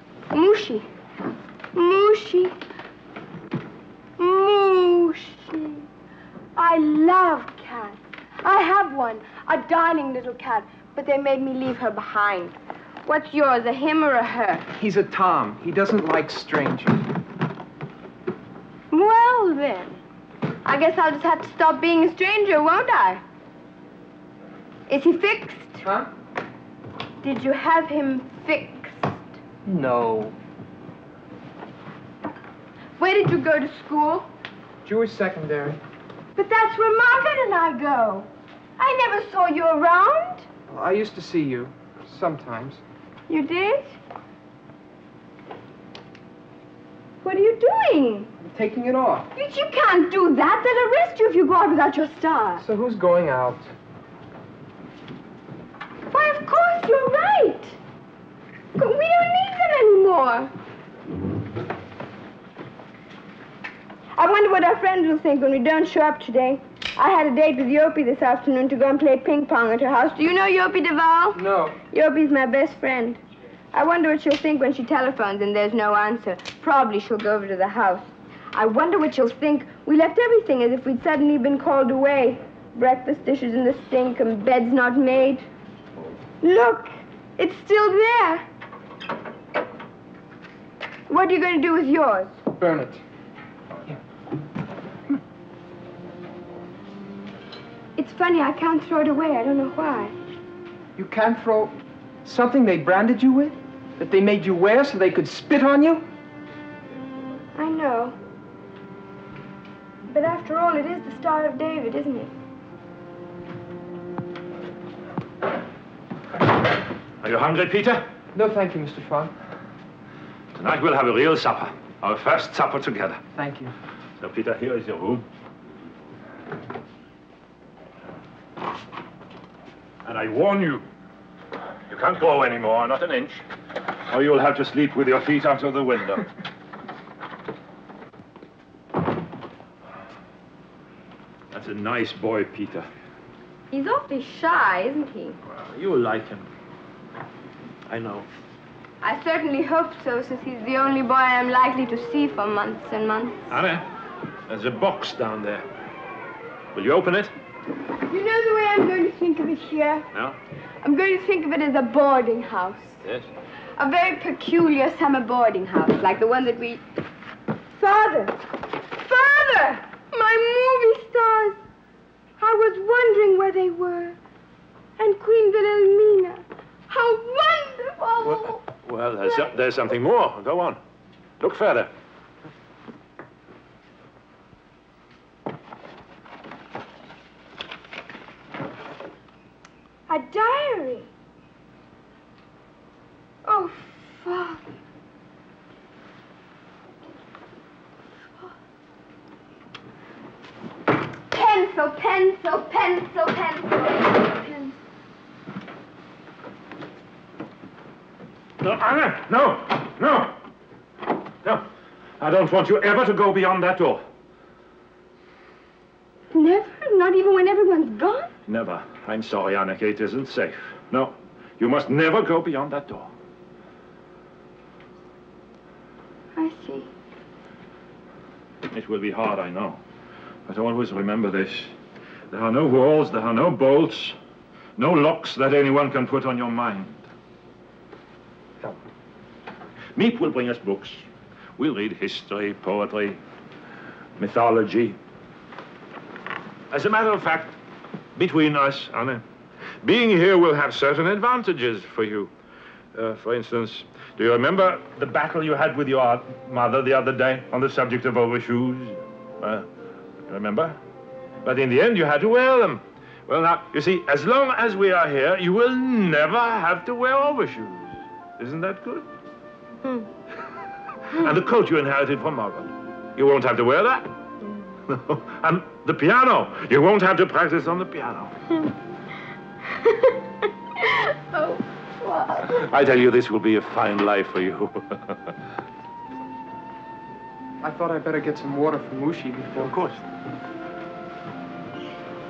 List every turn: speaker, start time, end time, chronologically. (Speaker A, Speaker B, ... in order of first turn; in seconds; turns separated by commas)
Speaker A: 0.3-0.9, Speaker A: 1.7-2.5, Speaker A: 4.2-5.9, Speaker A: 6.5-14.7, Speaker B: 14.8-17.1, Speaker A: 18.9-20.0, Speaker A: 20.6-23.2, Speaker A: 24.9-25.8, Speaker B: 25.8-26.1, Speaker A: 27.2-29.4, Speaker B: 29.6-30.3, Speaker A: 33.0-34.3, Speaker B: 34.8-35.8, Speaker A: 36.4-40.5, Speaker B: 40.7-42.8, Speaker A: 43.3-43.9, Speaker A: 47.2-48.3, Speaker B: 48.4-49.3, Speaker A: 49.3-52.6, Speaker B: 52.6-53.7, Speaker A: 56.1-57.8, Speaker A: 58.8-60.5, Speaker A: 64.2-73.2, Speaker B: 71.3-71.8, Speaker A: 73.7-85.5, Speaker A: 86.4-88.5, Speaker A: 91.1-92.4, Speaker B: 92.5-93.0, Speaker A: 98.0-100.1, Speaker B: 101.0-101.7, Speaker B: 102.2-106.0, Speaker A: 107.5-108.2, Speaker A: 110.1-112.3, Speaker C: 117.2-118.0, Speaker B: 118.3-119.3, Speaker C: 120.5-123.2, Speaker B: 123.3-123.7, Speaker C: 124.2-125.2, Speaker C: 130.0-130.8, Speaker C: 131.9-133.4, Speaker C: 134.1-136.3, Speaker C: 141.5-142.9, Speaker A: 143.7-145.4, Speaker C: 145.5-146.5, Speaker C: 147.9-148.3, Speaker A: 149.0-153.4, Speaker C: 153.5-153.8, Speaker C: 154.5-155.7, Speaker C: 156.7-157.3, Speaker A: 158.1-160.1, Speaker A: 160.8-163.0, Speaker A: 163.8-166.8, Speaker A: 167.8-171.6, Speaker A: 172.4-174.2, Speaker A: 175.0-178.6, Speaker C: 178.2-180.8, Speaker A: 179.2-179.5, Speaker C: 181.4-181.9, Speaker A: 190.1-191.1, Speaker A: 193.4-194.7, Speaker A: 201.3-204.8, Speaker C: 208.6-210.3, Speaker C: 212.2-214.0, Speaker A: 216.3-218.3, Speaker C: 218.5-223.1, Speaker A: 226.3-226.9, Speaker C: 228.7-229.8, Speaker C: 230.5-231.7, Speaker C: 232.3-234.2, Speaker C: 234.8-237.0, Speaker C: 239.9-241.0, Speaker C: 241.6-243.2, Speaker C: 244.2-245.0, Speaker C: 246.7-247.5, Speaker C: 248.2-249.2, Speaker C: 249.8-252.3, Speaker C: 252.9-259.6, Speaker C: 260.3-260.8, Speaker C: 261.4-269.1, Speaker C: 271.1-274.1, Speaker C: 274.9-278.4, Speaker A: 281.3-282.5, Speaker C: 282.4-285.4, Speaker B: 287.6-289.7, Speaker C: 289.6-290.0